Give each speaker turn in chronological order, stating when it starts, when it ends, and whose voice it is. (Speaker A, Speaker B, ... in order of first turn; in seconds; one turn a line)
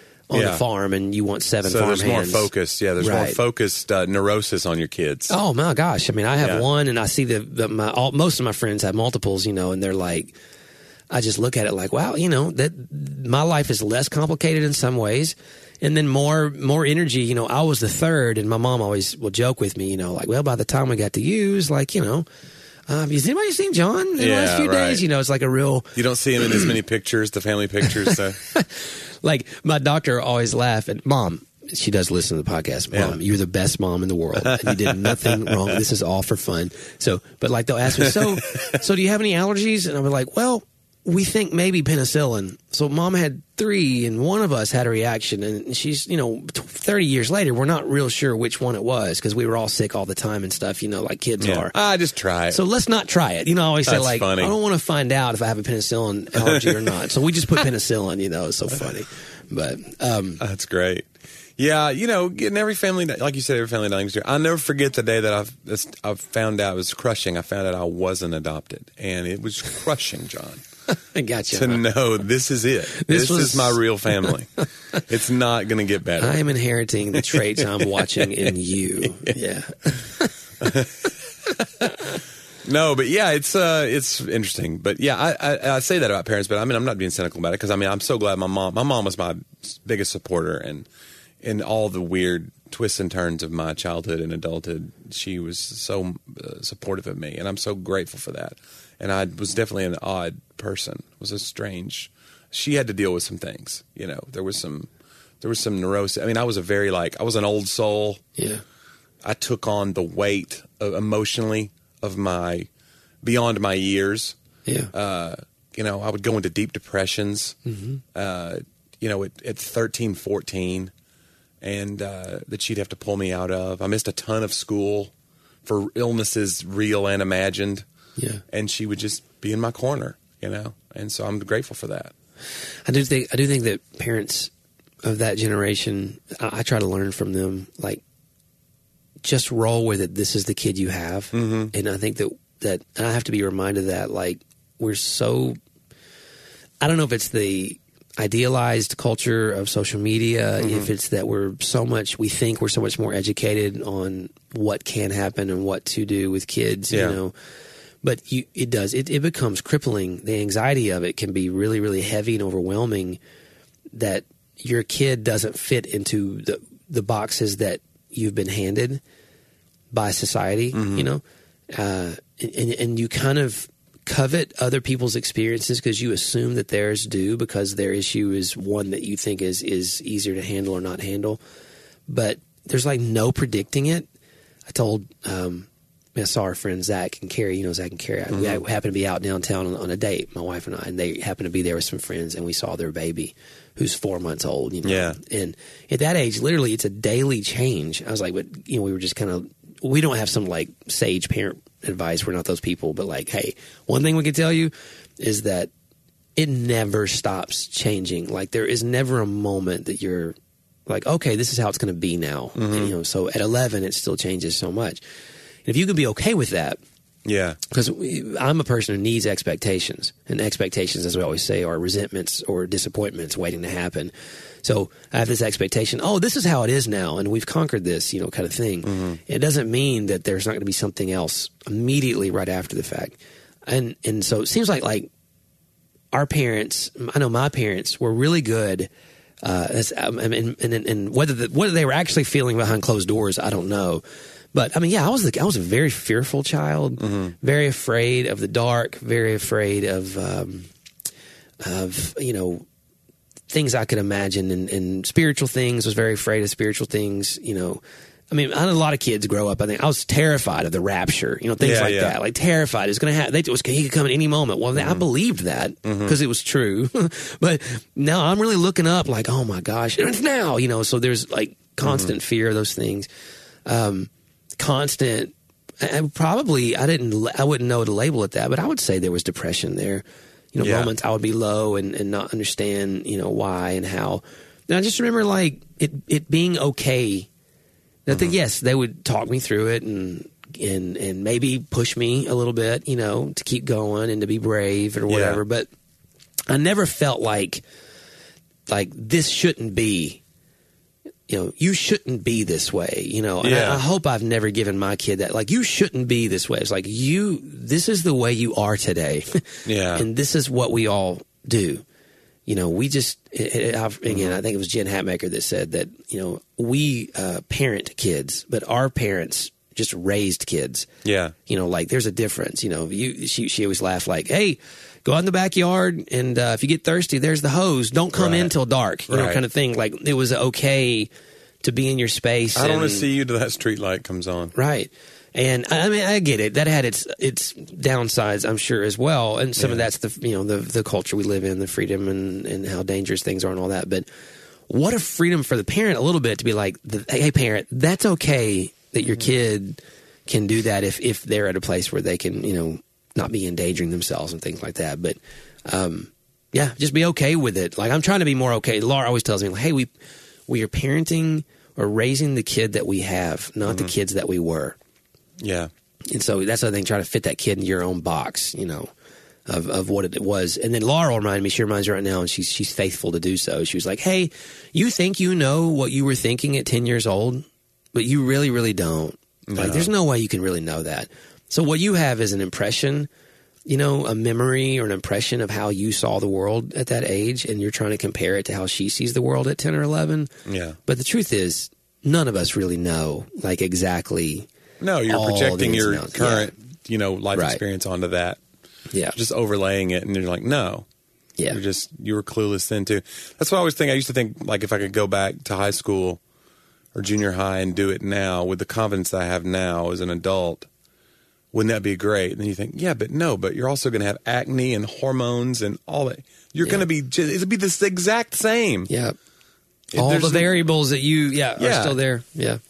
Speaker A: 0.3-3.4
Speaker B: 0.3-0.6
Speaker B: 1.6-5.3
Speaker A: 5.3-10.3
Speaker B: 6.4-6.7
Speaker A: 11.1-22.3
Speaker A: 22.9-26.7
Speaker B: 24.2-25.0
Speaker B: 25.9-28.4
Speaker A: 27.8-51.7
Speaker B: 32.9-33.2
Speaker B: 34.4-35.7
Speaker B: 38.0-38.6
Speaker B: 51.4-52.6
Speaker A: 52.5-60.4
Speaker B: 53.9-54.5
Speaker B: 56.4-56.9
Speaker B: 60.4-70.6
Speaker A: 70.9-71.8
Speaker B: 71.5-76.4
Speaker A: 72.9-74.3
Speaker A: 76.2-80.3
Speaker B: 77.2-79.4
Speaker B: 80.6-81.1
Speaker B: 82.6-90.9
Speaker B: 91.4-104.9
Speaker B: 105.4-108.2
Speaker A: 108.4-108.6
Speaker B: 109.2-112.7
Speaker B: 113.2-114.4
Speaker A: 114.7-114.9
Speaker B: 114.9-117.6
Speaker A: 117.7-118.0
Speaker B: 118.1-120.9
Speaker B: 121.6-125.1
Speaker B: 125.7-127.8
Speaker B: 128.5-132.1
Speaker A: 132.9-134.5
Speaker A: 135.0-138.0
Speaker A: 139.2-145.6
Speaker B: 141.3-141.7
Speaker A: 146.8-157.3
Speaker B: 150.6-150.9
Speaker B: 156.9-157.2
Speaker A: 158.0-163.2
Speaker A: 163.9-169.0
Speaker A: 169.9-181.4
Speaker B: 170.7-171.1
Speaker A: 182.1-184.1
Speaker A: 184.7-205.7
Speaker B: 188.3-188.6
Speaker B: 194.8-195.2
Speaker A: 206.4-210.4
Speaker A: 210.9-215.0
Speaker B: 212.6-212.9
Speaker A: 215.7-216.8
Speaker B: 217.2-217.6
Speaker A: 217.7-224.1
Speaker A: 224.6-235.1
Speaker B: 228.8-229.2
Speaker A: 236.1-238.9
Speaker A: 239.4-250.7
Speaker B: 247.0-247.3
Speaker A: 251.6-252.7
Speaker A: 253.5-273.1
Speaker B: 261.6-262.2
Speaker B: 264.8-265.1
Speaker B: 265.8-266.2
Speaker B: 271.8-272.1
Speaker A: 273.7-287.3
Speaker B: 280.6-280.9
Speaker A: 288.1-295.7
Speaker B: 288.1-288.4
Speaker B: 295.1-295.4
Speaker A: 296.5-297.6
Speaker A: 298.7-300.2
Speaker A: 301.3-311.8
Speaker B: 303.4-303.8
Speaker B: 309.7-310.1
Speaker A: 312.5-320.9
Speaker B: 314.1-314.4
Speaker B: 321.0-321.4
Speaker A: 321.5-331.1
Speaker B: 328.2-328.5
Speaker B: 329.1-329.4
Speaker A: 331.6-333.1
Speaker B: 332.6-334.5
Speaker A: 334.6-344.1
Speaker B: 339.6-339.9
Speaker A: 344.7-359.9
Speaker A: 360.5-364.8
Speaker B: 363.7-363.9
Speaker B: 365.4-365.7
Speaker A: 366.1-368.9
Speaker A: 369.5-383.1
Speaker B: 379.5-379.9
Speaker A: 383.7-390.3
Speaker B: 390.5-390.8
Speaker A: 390.9-394.5
Speaker B: 394.8-398.4
Speaker A: 395.1-396.5
Speaker A: 397.3-397.6
Speaker A: 398.9-399.2
Speaker B: 399.1-400.9
Speaker B: 401.5-406.2
Speaker B: 406.9-410.7
Speaker B: 411.5-418.9
Speaker A: 418.9-419.2
Speaker B: 419.9-420.6
Speaker A: 419.9-422.6
Speaker B: 421.6-422.0